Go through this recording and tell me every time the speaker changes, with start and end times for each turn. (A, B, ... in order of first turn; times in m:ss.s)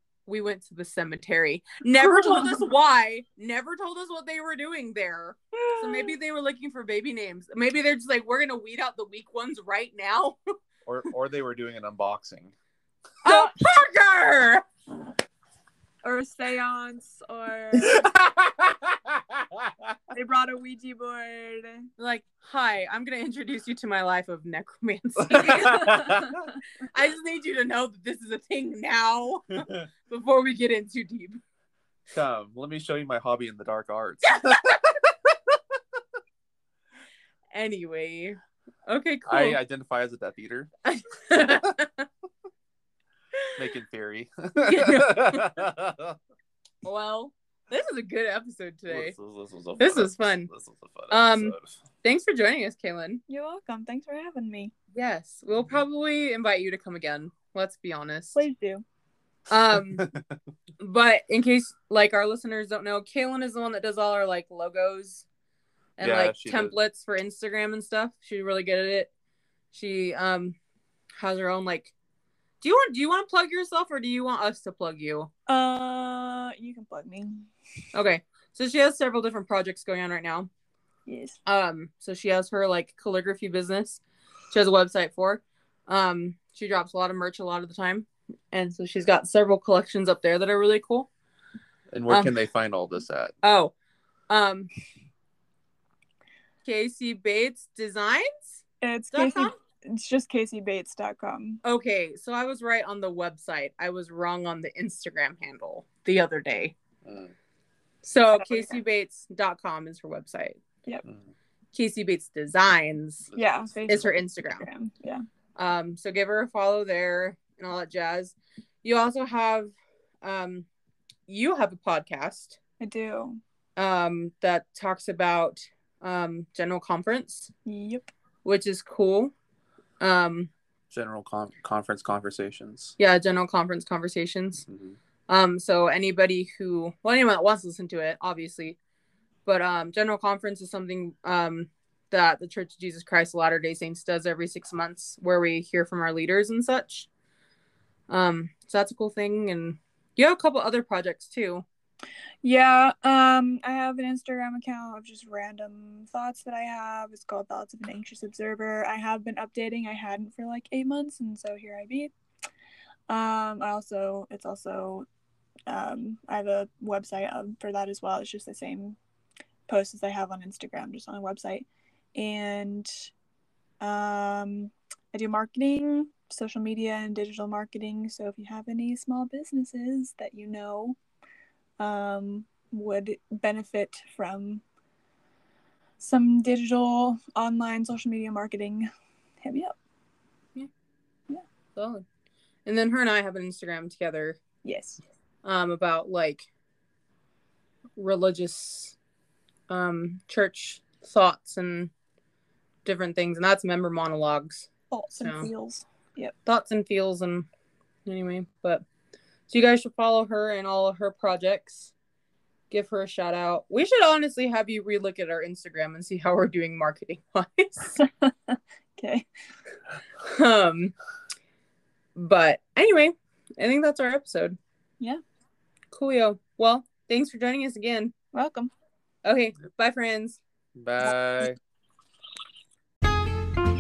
0:00.3-0:10.4 A
0:02.0-0:02.6 B
0:05.6-0:06.1 B
0:10.9-0:12.5 C
0:13.2-0:14.6 A
0:13.2-0:13.5 B
0:16.0-0:18.0 B
0:17.8-0:20.0 C
0:20.1-0:21.9 B
0:22.0-0:26.2 A
0:25.2-0:26.5 C
0:26.9-0:31.4 A
0:32.1-0:34.8 C
0:34.2-0:35.0 A
0:37.5-0:39.6 A
0:39.3-0:40.7 C
0:40.8-0:42.1 A
0:43.6-0:46.2 C
0:44.6-0:45.6 A
0:46.8-0:49.2 A
0:48.9-0:51.7 C
0:49.8-0:50.5 A
0:51.1-0:53.2 A
0:53.3-0:54.7 B
0:54.9-0:58.4 A
0:58.3-0:58.8 B
0:59.5-1:00.1 A
1:00.0-1:00.4 C
1:00.8-1:05.3 A
1:06.0-1:09.1 A
1:06.0-1:06.8 C
1:09.7-1:10.6 A
1:11.2-1:11.9 A
1:12.6-1:15.3 A
1:15.5-1:17.5 B
1:17.9-1:20.5 A
1:21.1-1:21.4 B
1:21.5-1:31.1 A
1:31.9-1:33.3 C
1:32.1-1:32.4 A
1:33.4-1:33.7 A
1:34.3-1:34.7 A
1:36.6-1:39.6 A
1:38.8-1:41.6 B
1:41.6-1:46.8 A
1:47.0-1:47.3 C
1:48.0-1:50.6 A
1:48.4-1:48.8 B
1:51.7-1:53.3 A
1:53.3-1:53.7 C
1:53.4-1:55.2 B
1:53.9-1:54.7 A
1:55.6-2:00.7 A
2:01.3-2:02.6 A
2:02.8-2:03.4 B
2:03.8-2:07.5 A
2:07.7-2:08.1 B
2:08.4-2:09.3 A
2:10.0-2:10.5 A
2:10.9-2:12.9 C
2:13.0-2:14.6 A
2:14.7-2:15.0 C
2:15.3-2:18.8 A
2:19.5-2:27.1 A
2:28.1-2:31.6 A
2:32.4-2:42.1 B
2:43.1-2:45.1 B
2:45.7-2:49.0 B
2:49.7-2:53.1 B
2:53.8-3:01.0 B
3:01.8-3:04.6 B
3:06.0-3:08.9 B
3:09.4-3:09.8 B
3:11.8-3:12.0 A
3:12.7-3:14.4 A
3:14.6-3:15.0 B
3:15.4-3:16.5 A
3:18.0-3:19.0 A
3:19.7-3:21.9 A
3:22.8-3:24.7 A
3:24.9-3:26.3 B
3:25.2-3:25.5 A
3:26.4-3:27.5 A
3:28.1-3:28.8 A
3:29.5-3:31.9 A
3:32.7-3:38.0 A
3:37.9-3:39.3 B
3:40.2-3:41.0 A
3:42.2-3:44.6 A
3:45.9-3:48.1 A
3:48.3-3:48.7 B
3:49.2-3:50.4 A
3:50.8-3:51.6 C